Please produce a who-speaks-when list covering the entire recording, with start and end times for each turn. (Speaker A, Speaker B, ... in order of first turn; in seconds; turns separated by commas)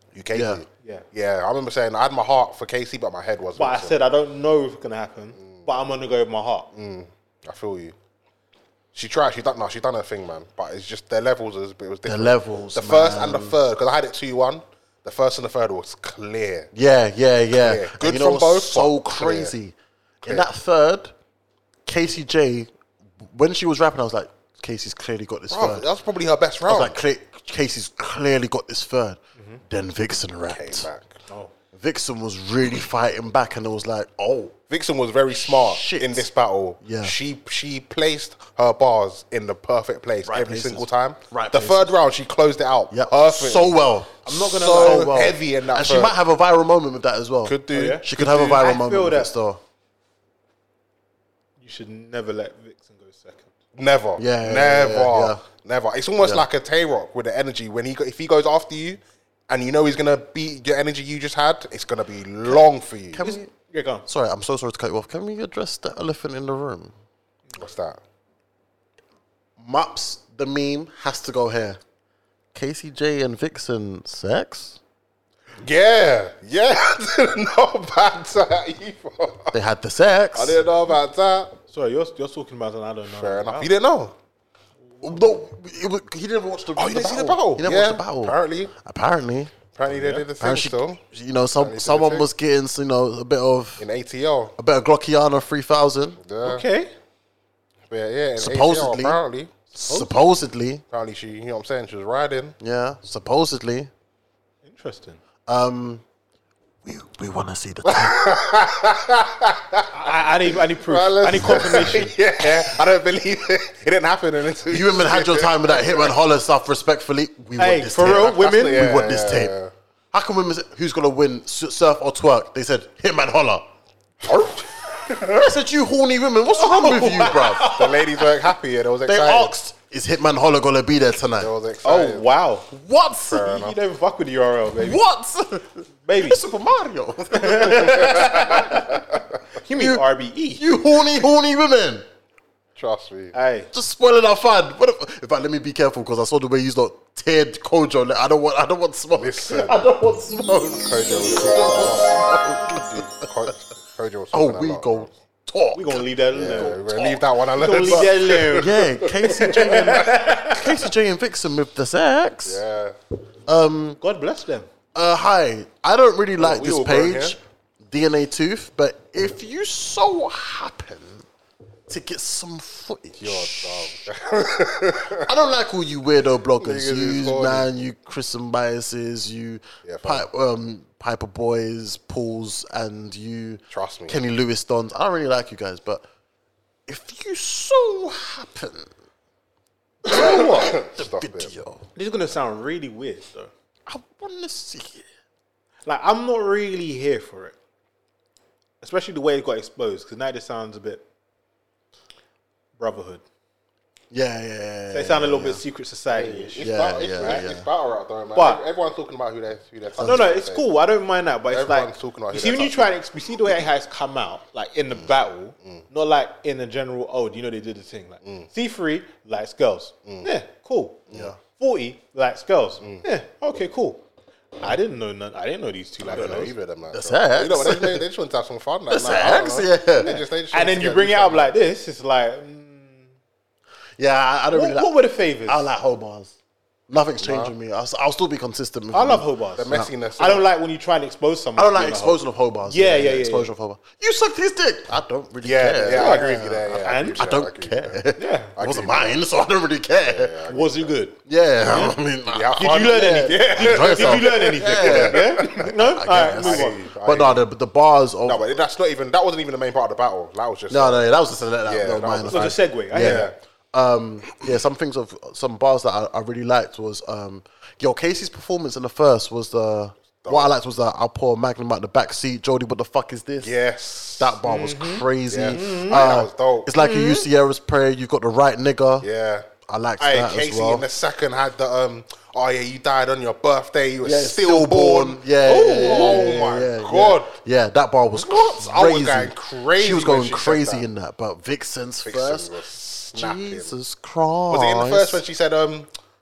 Speaker A: 0.1-4.0, Speaker B: 0.3-0.6, Speaker C: 3.5-6.7, Speaker A: 5.4-5.7, Speaker A: 6.7-7.9, Speaker A: 8.9-16.7, Speaker B: 12.0-13.6, Speaker B: 16.7-21.1, Speaker A: 17.6-19.5, Speaker B: 21.9-22.7, Speaker B: 23.2-25.8, Speaker A: 25.5-27.0, Speaker B: 26.6-30.9, Speaker C: 29.4-29.6, Speaker A: 30.5-31.2, Speaker B: 31.7-34.5, Speaker A: 34.7-43.8, Speaker B: 35.3-36.3, Speaker B: 36.8-37.1, Speaker B: 40.2-41.9, Speaker B: 42.9-49.6, Speaker C: 44.3-45.1, Speaker A: 44.6-46.1, Speaker A: 47.4-48.6, Speaker C: 47.7-49.3, Speaker C: 51.6-53.5, Speaker A: 53.8-63.2, Speaker B: 54.2-55.4, Speaker B: 56.2-56.4, Speaker B: 63.1-63.5, Speaker C: 63.2-64.0, Speaker B: 64.0-66.9, Speaker A: 67.5-68.0, Speaker B: 69.6-71.8, Speaker B: 72.5-74.8, Speaker A: 75.6-79.5, Speaker B: 79.5-80.6, Speaker A: 80.3-81.5, Speaker C: 81.7-83.7, Speaker A: 83.1-84.1, Speaker B: 85.0-89.5, Speaker A: 86.8-88.7, Speaker A: 89.7-91.0, Speaker C: 89.9-90.2, Speaker B: 90.4-93.8, Speaker A: 91.5-92.3, Speaker A: 93.8-94.5, Speaker B: 94.6-96.2, Speaker A: 96.2-96.6, Speaker C: 96.4-96.9, Speaker A: 97.9-99.5, Speaker B: 98.4-99.2, Speaker B: 99.7-100.8, Speaker A: 100.9-102.5, Speaker B: 102.6-103.9, Speaker C: 104.6-105.2, Speaker B: 105.5-106.0, Speaker B: 106.8-108.4, Speaker A: 107.8-110.2, Speaker C: 109.9-112.1, Speaker A: 110.8-116.1, Speaker B: 114.7-119.5, Speaker C: 117.6-118.9, Speaker A: 118.0-119.7, Speaker B: 120.1-123.7, Speaker A: 124.3-125.2, Speaker B: 125.1-127.7, Speaker C: 126.6-128.2, Speaker A: 127.6-129.5, Speaker B: 129.1-131.5, Speaker A: 131.4-132.3, Speaker C: 131.8-132.7, Speaker B: 132.7-133.6, Speaker A: 133.3-133.8, Speaker C: 133.4-135.0, Speaker B: 134.8-139.0, Speaker C: 136.1-136.4, Speaker C: 137.3-139.0, Speaker C: 139.6-140.8, Speaker B: 139.7-142.0, Speaker A: 142.8-143.3, Speaker C: 143.3-143.7, Speaker B: 143.7-153.5, Speaker A: 149.2-149.8, Speaker A: 150.8-155.1, Speaker B: 154.3-157.0, Speaker C: 155.7-158.7, Speaker A: 156.3-160.3, Speaker B: 157.7-162.6, Speaker C: 159.2-160.6, Speaker A: 162.4-162.9, Speaker B: 163.5-164.0, Speaker C: 164.0-164.7, Speaker B: 164.9-171.2, Speaker A: 166.4-167.4, Speaker B: 171.9-174.0, Speaker A: 173.2-175.3, Speaker B: 175.2-186.0, Speaker A: 176.6-177.7, Speaker A: 179.8-180.2, Speaker A: 183.7-184.2, Speaker B: 186.9-188.9, Speaker B: 190.1-191.8, Speaker C: 190.1-190.7, Speaker A: 190.1-191.5, Speaker C: 191.9-193.5, Speaker B: 193.9-195.1, Speaker C: 195.8-197.5, Speaker C: 198.8-201.0, Speaker C: 202.8-203.2, Speaker B: 204.1-205.6, Speaker C: 204.9-207.4, Speaker A: 206.1-210.7, Speaker B: 206.6-207.7, Speaker C: 208.3-208.6, Speaker B: 210.0-210.3, Speaker C: 210.0-221.0, Speaker A: 211.5-212.9, Speaker A: 218.2-218.5, Speaker B: 221.1-221.4, Speaker C: 221.6-224.0, Speaker C: 224.6-226.5, Speaker A: 226.0-231.5, Speaker B: 226.9-228.0, Speaker B: 228.9-230.1, Speaker C: 230.0-233.1, Speaker B: 234.0-234.9, Speaker C: 234.5-235.7, Speaker B: 235.4-236.3, Speaker B: 236.9-239.9, Speaker A: 237.2-237.5, Speaker C: 238.9-243.5, Speaker A: 239.6-240.5, Speaker B: 241.6-250.5, Speaker A: 245.4-248.0, Speaker C: 245.9-246.3, Speaker C: 246.8-247.2, Speaker C: 248.2-248.5, Speaker A: 248.6-249.2, Speaker A: 250.0-250.9, Speaker C: 250.5-251.9, Speaker B: 251.2-258.4, Speaker A: 251.7-255.7, Speaker C: 252.6-256.8, Speaker A: 256.3-257.4, Speaker A: 258.2-261.1, Speaker B: 260.7-273.5, Speaker A: 261.6-263.3, Speaker C: 262.3-263.3, Speaker A: 270.2-270.5, Speaker A: 273.4-274.4, Speaker B: 274.2-279.1, Speaker C: 274.4-276.0, Speaker A: 275.3-276.7, Speaker C: 276.8-277.2, Speaker A: 279.0-279.5, Speaker B: 279.7-280.8, Speaker A: 280.0-287.3, Speaker B: 284.0-292.5, Speaker C: 285.5-286.4, Speaker A: 288.2-290.9, Speaker A: 292.0-293.8, Speaker B: 293.1-295.2, Speaker A: 294.5-295.9